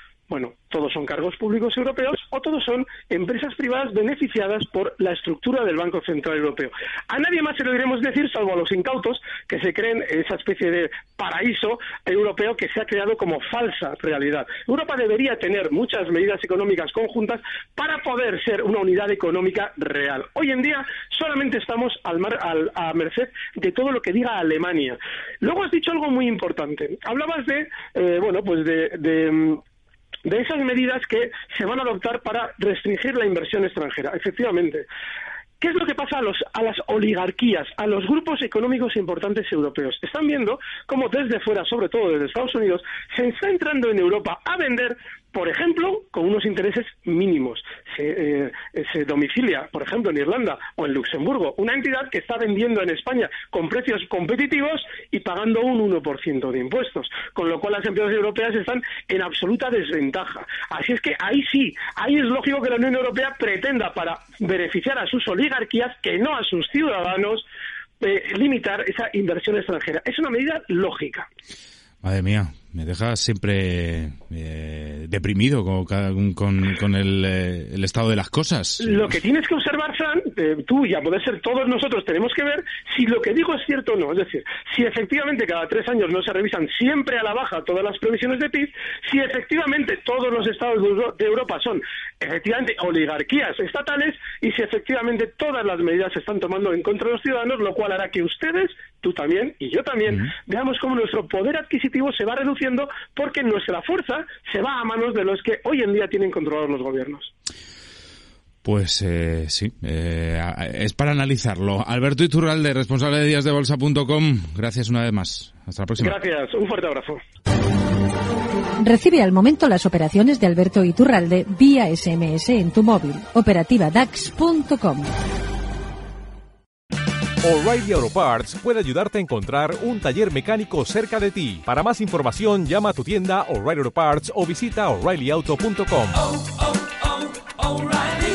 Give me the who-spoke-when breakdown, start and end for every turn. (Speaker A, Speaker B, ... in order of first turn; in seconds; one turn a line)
Speaker A: 0.3-29.6
Speaker A: 30.2-34.9
Speaker A: 35.6-67.5
Speaker A: 68.0-71.3
Speaker B: 72.0-79.1
Speaker A: 78.8-107.3
Speaker B: 108.6-116.2
Speaker A: 116.0-117.2
Speaker C: 118.8-125.1
Speaker D: 127.4-136.4